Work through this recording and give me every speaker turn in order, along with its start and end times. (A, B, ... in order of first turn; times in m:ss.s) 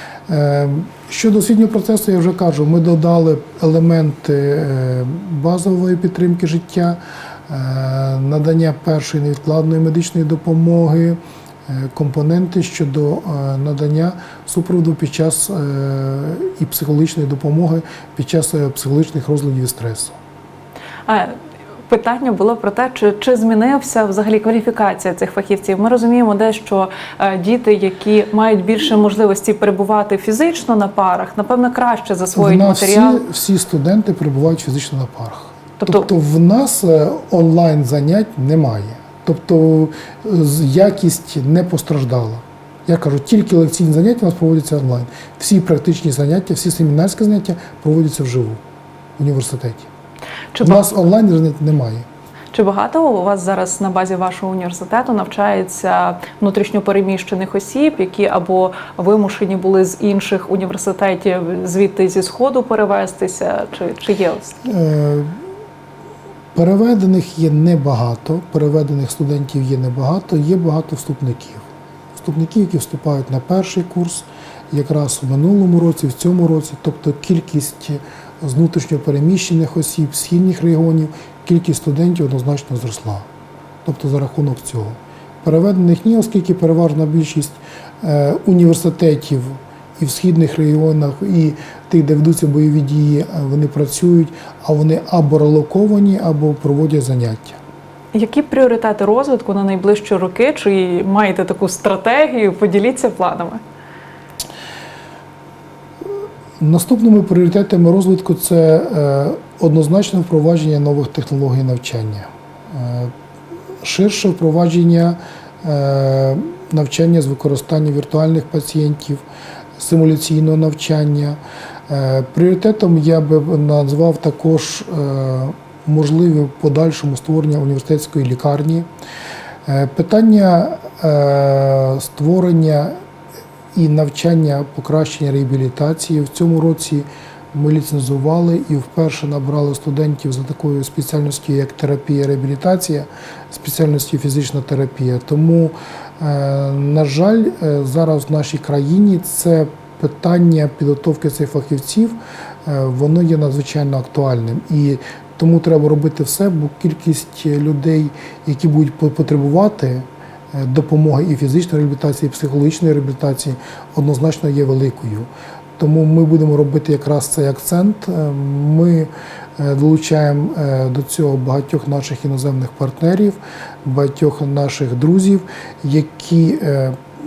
0:00.3-0:20.2 A
0:21.1-0:21.4 B
0:21.9-0:33.2 B
0:32.3-0:48.6 A
0:35.8-0:36.1 B
0:49.2-0:49.9 A
0:50.5-0:50.8 B
0:50.6-0:52.1 A
0:52.5-1:04.6 B
1:04.6-1:05.3 A
1:06.5-1:23.3 A
1:23.8-1:37.6 A
1:38.1-1:43.6 B
1:46.6-1:53.1 A
1:53.8-1:59.2 A
1:59.8-2:08.9 A
2:09.6-2:13.0 A
2:13.7-2:57.0 A